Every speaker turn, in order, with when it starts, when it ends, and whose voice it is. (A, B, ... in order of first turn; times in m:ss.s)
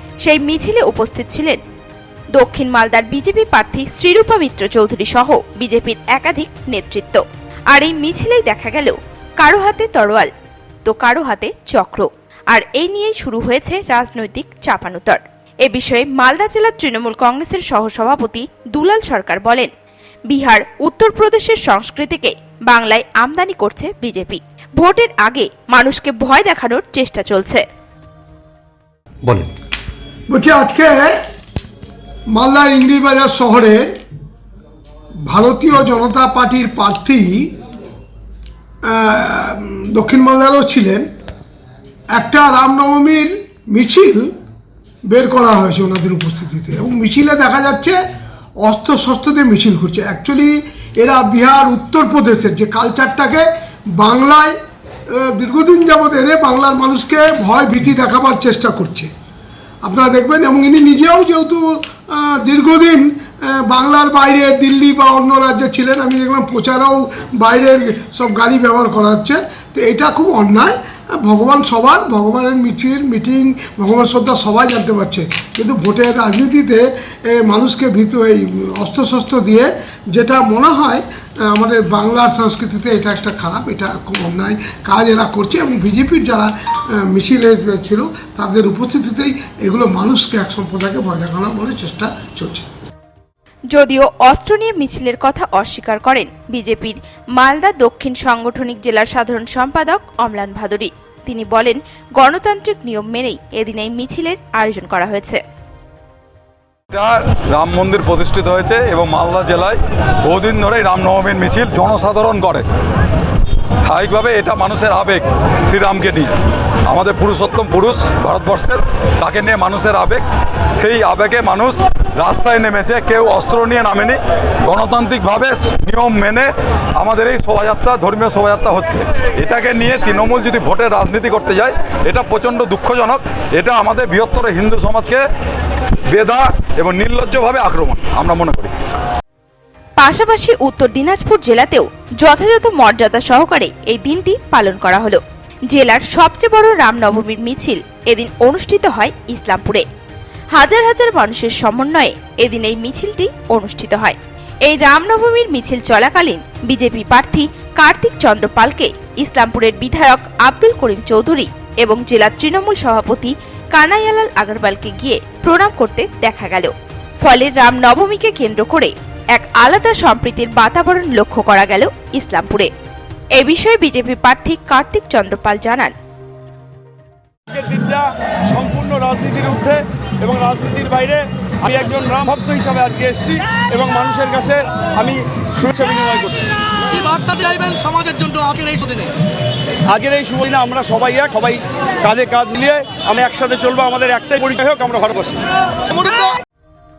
0:00.2-0:01.6 A
0:02.3-0:10.3 A
0:10.8-0:19.7 A
0:20.3-0:27.6 A
0:30.3-0:31.1 B
0:32.3-0:33.8 B
0:35.2-0:37.5 B
0:38.8-0:41.0 B
0:42.1-0:44.3 B
0:45.1-0:48.0 B
0:48.6-0:54.5 B
0:55.1-0:59.1 B
0:59.8-1:32.7 B
1:33.7-1:45.4 A
1:46.9-1:52.6 C
1:53.8-1:56.3 C
1:56.9-2:00.2 C
2:00.8-2:15.2 C
2:16.1-2:18.7 C
2:20.0-2:29.8 A
2:30.5-2:52.7 A
2:53.3-2:55.9 A
2:57.5-3:06.5 D
3:06.9-3:09.1 E
3:09.9-3:15.4 D
3:15.9-3:16.4 E